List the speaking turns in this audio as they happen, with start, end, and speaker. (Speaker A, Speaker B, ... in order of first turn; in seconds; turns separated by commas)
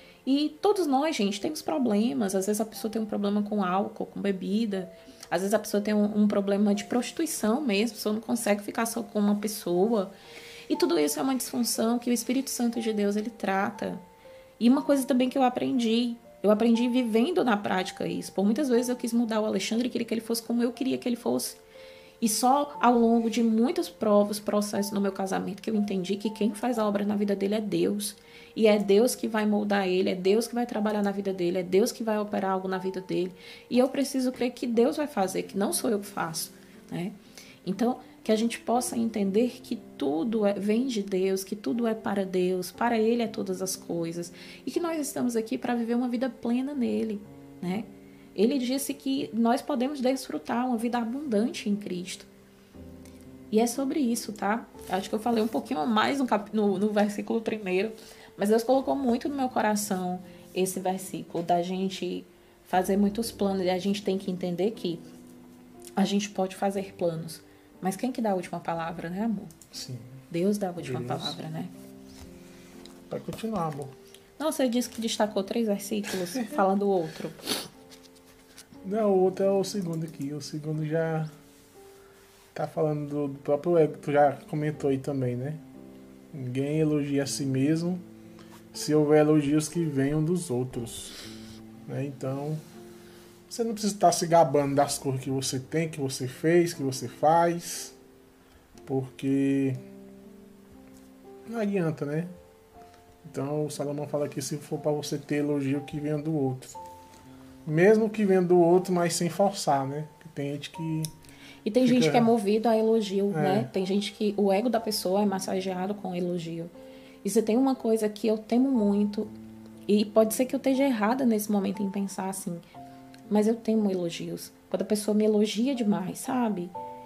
Speaker A: 0.2-10.1, Speaker A: 10.7-14.0, Speaker A: 14.6-21.6, Speaker A: 22.2-52.3, Speaker A: 53.5-65.0, Speaker A: 66.0-69.5, Speaker B: 69.7-70.2, Speaker A: 70.3-71.7, Speaker B: 70.8-71.4, Speaker B: 73.1-73.9, Speaker A: 74.4-77.5, Speaker B: 78.8-81.3, Speaker B: 82.5-85.6, Speaker B: 86.3-88.0, Speaker B: 88.7-91.2, Speaker B: 91.9-92.6, Speaker B: 93.5-98.0, Speaker B: 98.8-99.8, Speaker B: 101.5-102.3, Speaker B: 103.2-106.8, Speaker B: 107.7-111.1, Speaker A: 111.7-116.7, Speaker B: 111.8-112.3, Speaker B: 113.3-113.7, Speaker A: 117.2-119.3, Speaker A: 119.9-122.7, Speaker A: 123.3-126.7